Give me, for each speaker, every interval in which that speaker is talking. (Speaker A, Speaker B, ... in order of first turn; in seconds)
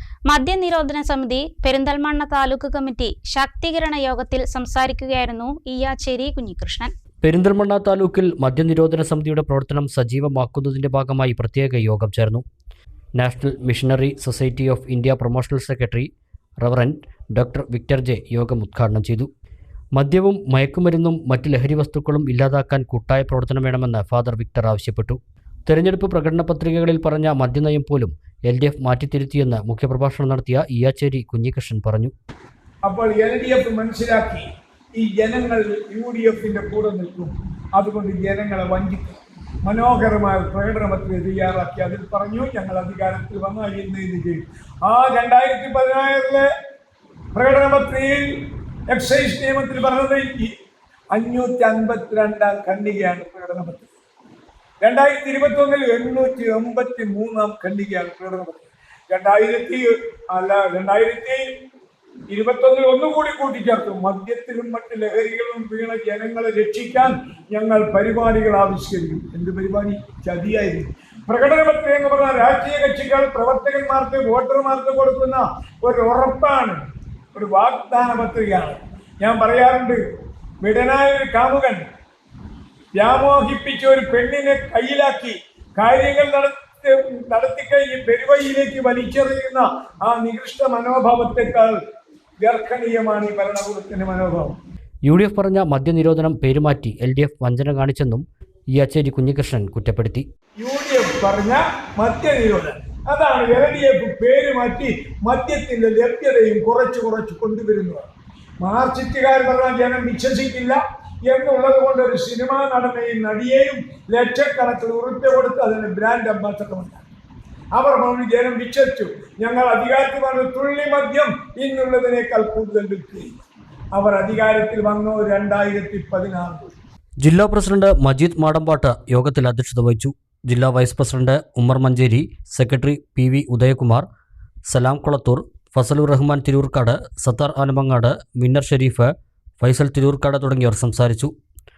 Speaker A: 0.3-6.9
Speaker B: 7.2-12.4, 13.2-16.1, 16.6-19.3, 19.9-32.1, 95.0-100.3, 127.2-134.1, 134.7-141.3
Speaker C: 32.8-34.5, 35.0-46.5, 47.3-48.2, 48.9-50.5, 51.1-53.9, 54.8-61.5, 62.3-76.8, 77.3-80.0, 80.6-81.8, 83.0-91.8, 92.4-94.6, 100.6-108.1, 108.6-117.0, 117.7-123.3, 123.9-126.7